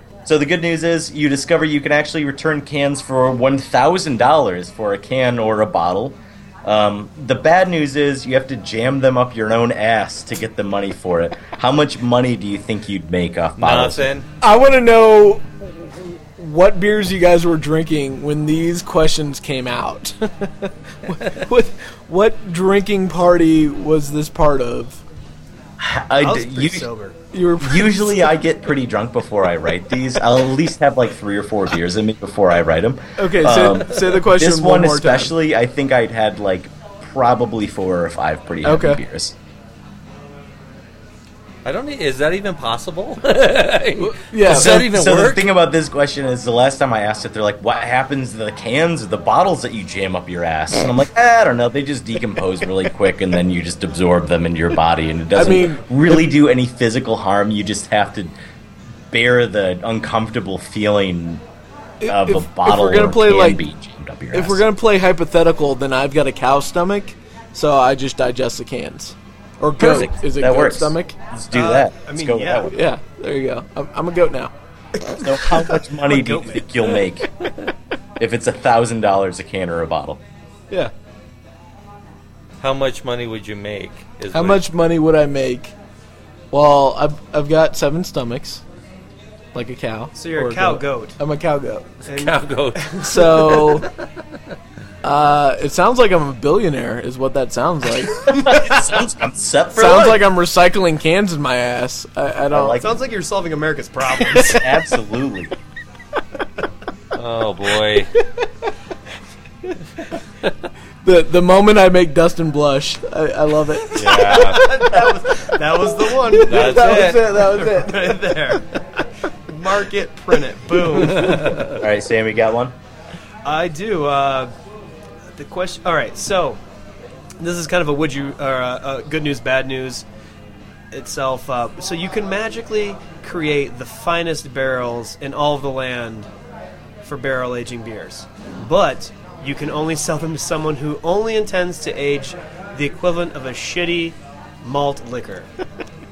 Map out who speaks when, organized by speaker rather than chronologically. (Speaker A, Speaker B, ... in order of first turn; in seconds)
Speaker A: 0.2-14.1, 25.8-26.9, 27.6-39.4, 44.4-58.3, 59.1-61.4, 62.0-64.6, 69.8-72.8, 75.1-77.3, 78.2-80.2, 98.2-100.2, 102.5-102.9, 104.4-105.5, 121.6-122.7
Speaker B: 13.6-14.2, 41.6-45.5, 82.6-84.6, 92.1-94.0, 107.1-108.1, 113.9-114.7, 116.4-117.2, 121.1-121.8
Speaker C: 14.4-25.0, 27.3-28.3, 33.2-35.3, 38.6-39.0, 44.0-44.9, 55.3-55.8, 62.0-63.6, 64.3-71.1, 72.7-74.5, 84.3-85.7, 86.5-88.6, 89.5-92.1, 93.0-93.9, 95.0-98.9, 99.7-102.8, 104.3-104.6, 108.1-108.7, 109.6-110.2, 111.0-115.2, 116.0-118.6, 121.2-121.5
Speaker D: 26.2-27.1, 71.5-72.7, 75.0-76.9, 90.1-91.1, 92.1-93.8, 102.8-104.6, 113.9-121.4, 123.4-124.5, 125.3-126.6, 127.4-130.0, 130.9-136.3, 137.0-145.5